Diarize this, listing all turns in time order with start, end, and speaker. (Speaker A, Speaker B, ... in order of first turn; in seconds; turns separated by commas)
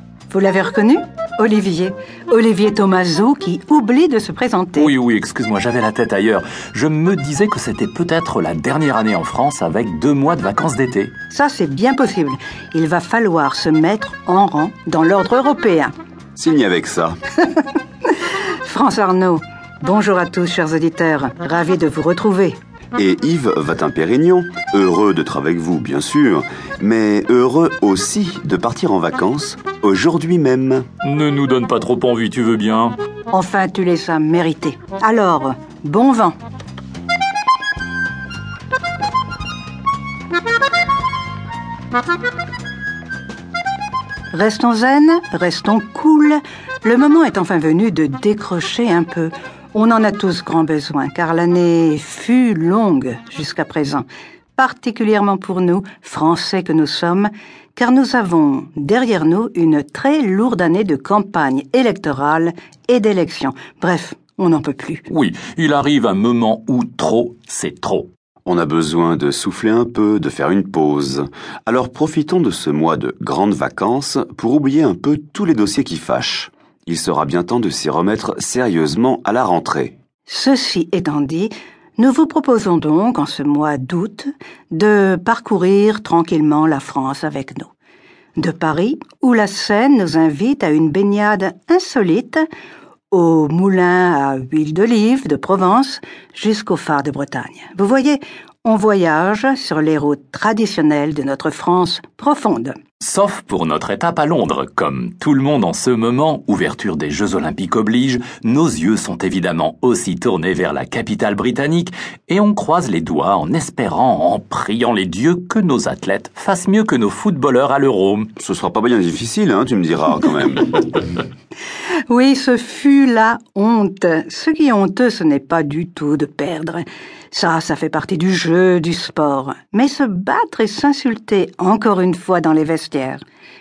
Speaker A: 0.3-4.9, Speaker B: 4.8-11.1, Speaker A: 11.3-15.9, Speaker C: 16.4-17.1, Speaker A: 18.6-22.6, Speaker C: 22.9-30.9, Speaker B: 31.0-32.9, Speaker A: 33.3-36.3, Speaker A: 44.3-54.0, Speaker A: 54.6-65.0, Speaker B: 65.1-68.1, Speaker C: 68.5-79.9, Speaker A: 80.3-87.7, Speaker A: 88.4-92.5, Speaker A: 93.1-102.8, Speaker B: 103.0-118.3, Speaker C: 118.4-120.8, Speaker A: 122.1-133.2